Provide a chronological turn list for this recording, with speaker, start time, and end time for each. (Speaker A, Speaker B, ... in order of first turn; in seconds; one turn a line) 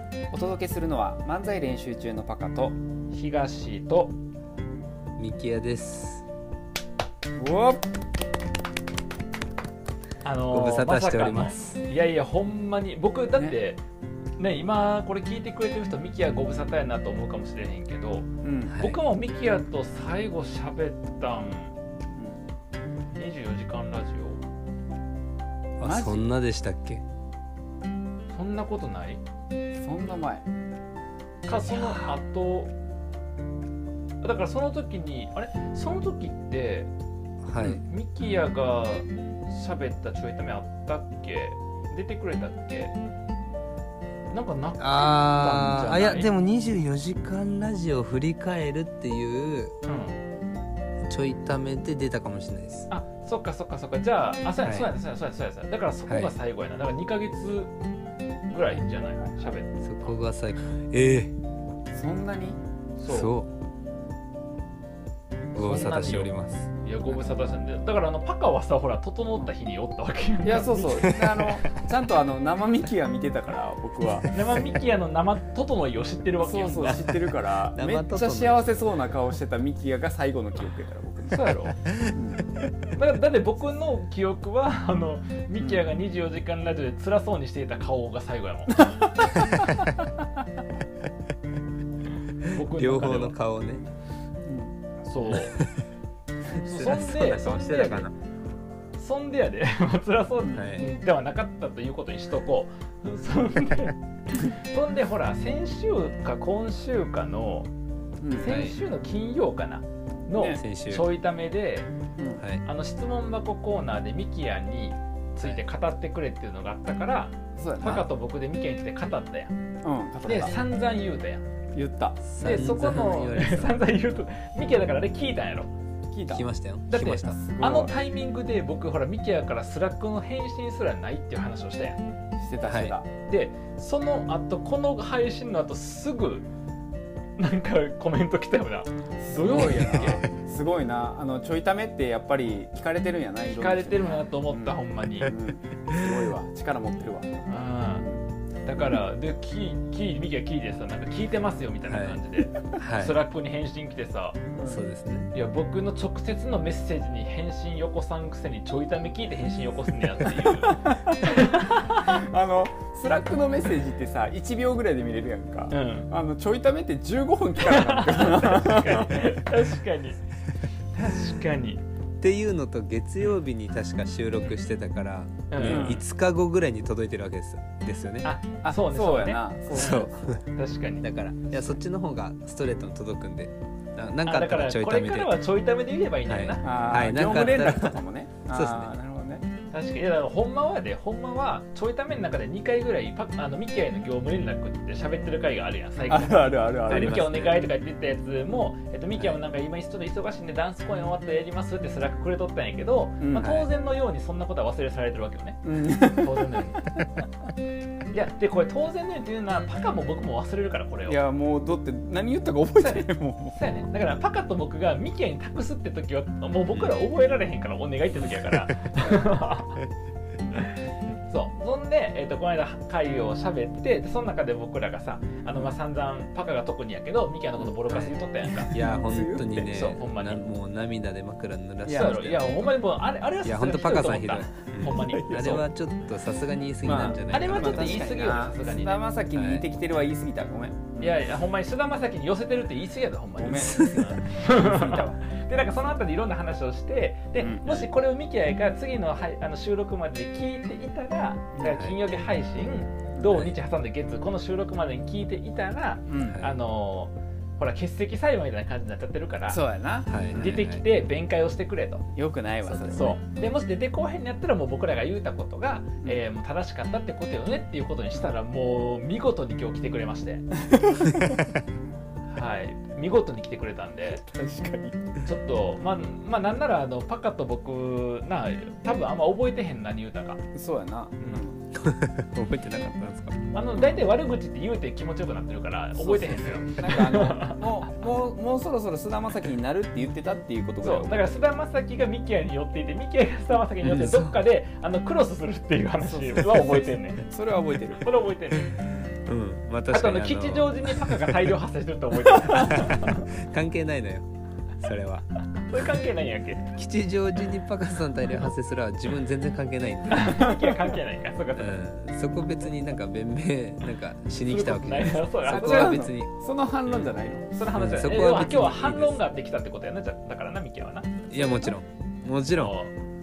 Speaker A: 0.3-2.8
Speaker B: 3.1-4.2
Speaker C: 5.2-6.2
Speaker A: 7.4-7.8
Speaker B: 10.2-13.8
Speaker C: 10.5-11.8
Speaker B: 14.4-21.7
Speaker A: 18.4-18.8
Speaker C: 18.7-19.0
Speaker A: 22.1-22.4
Speaker B: 23.1-24.4
Speaker C: 25.8-27.0
Speaker A: 25.8-26.3
Speaker B: 28.3-29.2
Speaker A: 29.8-30.4
Speaker B: 31.4-32.7
Speaker C: 31.7-32.1
Speaker B: 34.2-36.9
Speaker C: 37.4-37.8
Speaker B: 37.6-42.9
Speaker B: 44.3-46.3
Speaker C: 44.8-49.7
Speaker B: 49.8-50.2
Speaker C: 51.1-52.9
Speaker B: 52.9-57.7
Speaker C: 54.6-54.9
Speaker C: 56.1-56.3
Speaker B: 58.5-60.1
Speaker C: 59.8-61.3
Speaker A: 61.9-62.6
Speaker B: 63.0-63.3
Speaker C: 63.1-63.5
Speaker C: 65.5-66.7
Speaker B: 65.5-71.4
Speaker A: 67.1-67.4
Speaker A: 70.4-74.3
Speaker C: 71.1-71.5
Speaker B: 74.3-77.0
Speaker A: 76.4-81.5
Speaker C: 76.8-78.9
Speaker B: 81.3-81.8
Speaker A: 82.0-82.4
Speaker B: 82.9-88.9
Speaker A: 88.8-89.9
Speaker B: 92.5-93.3
Speaker C: 92.7-93.8
Speaker A: 94.5-94.7
Speaker B: 95.0-95.6
Speaker C: 95.3-95.8
Speaker C: 96.6-98.1
Speaker B: 96.6-98.1
Speaker B: 99.0-107.7
Speaker C: 100.5-100.9
Speaker A: 108.2-108.5
Speaker B: 108.3-111.9
Speaker C: 108.4-108.8
Speaker A: 110.3-110.6
Speaker C: 110.5-111.1
Speaker A: 112.2-112.4
Speaker C: 112.4-112.6
Speaker B: 112.6-119.5
Speaker A: 117.5-118.1
Speaker A: 119.8-120.6
Speaker B: 120.2-121.4
Speaker A: 121.7-122.4
Speaker C: 122.4-123.8
Speaker B: 122.4-125.7
Speaker A: 126.1-126.5
Speaker C: 126.3-127.4
Speaker B: 126.9-132.0
Speaker A: 127.4-128.0
Speaker A: 132.4-133.1
Speaker C: 132.7-133.0
Speaker B: 133.3-136.5
Speaker B: 137.4-140.2
Speaker A: 139.2-147.5
Speaker B: 143.5-145.3
Speaker B: 147.5-148.1
Speaker B: 148.6-154.4
Speaker C: 151.9-152.2
Speaker C: 152.8-153.2
Speaker A: 154.5-154.8
Speaker C: 154.6-155.3
Speaker B: 155.3-162.1
Speaker A: 160.5-169.4
Speaker B: 165.7-166.1
Speaker B: 167.6-170.2
Speaker B: 170.9-171.8
Speaker C: 172.2-178.3
Speaker B: 175.5-176.0
Speaker A: 175.6-176.0
Speaker B: 178.2-181.1
Speaker A: 178.6-180.4
Speaker C: 179.7-180.4
Speaker C: 181.0-185.4
Speaker B: 184.2-186.9
Speaker C: 186.2-188.9
Speaker A: 186.6-189.4
Speaker B: 189.7-206.9
Speaker A: 196.1-197.2
Speaker C: 196.9-197.7
Speaker A: 203.2-203.7
Speaker A: 205.6-206.6
Speaker B: 208.1-211.2
Speaker A: 211.1-213.6
Speaker B: 212.8-219.8
Speaker B: 220.6-228.7
Speaker C: 227.9-232.7
Speaker A: 228.7-229.8
Speaker B: 229.7-230.4
Speaker A: 231.9-232.2
Speaker B: 231.9-235.7
Speaker C: 233.4-238.2
Speaker A: 234.9-235.6
Speaker A: 236.8-241.3
Speaker B: 237.3-239.0
Speaker C: 239.3-239.6
Speaker B: 241.0-259.6
Speaker A: 243.3-245.2
Speaker C: 243.7-244.2
Speaker A: 247.4-247.9
Speaker A: 251.6-251.8
Speaker C: 251.7-252.0
Speaker A: 253.2-253.5
Speaker A: 256.1-256.4
Speaker C: 256.2-256.5
Speaker A: 259.5-260.6
Speaker C: 260.1-260.8
Speaker B: 260.3-262.1
Speaker A: 262.1-263.2
Speaker B: 262.6-270.5
Speaker A: 270.7-271.4
Speaker B: 272.3-274.2
Speaker A: 274.1-275.2
Speaker B: 275.2-280.4
Speaker A: 280.5-281.7
Speaker C: 281.7-283.4
Speaker B: 283.5-287.6
Speaker A: 285.9-291.3
Speaker B: 290.8-297.2
Speaker C: 293.8-294.4
Speaker A: 296.0-296.6
Speaker A: 297.2-298.0
Speaker B: 298.0-298.7
Speaker C: 298.7-301.5
Speaker B: 299.9-303.2
Speaker C: 302.5-304.3
Speaker C: 304.8-305.2
Speaker B: 305.5-306.7
Speaker C: 306.7-310.5
Speaker B: 310.1-311.8
Speaker C: 311.6-316.3
Speaker B: 314.4-316.0
Speaker A: 315.4-317.5
Speaker C: 316.9-317.1
Speaker B: 317.5-321.7
Speaker C: 317.7-319.2
Speaker C: 321.3-322.8
Speaker B: 322.5-322.9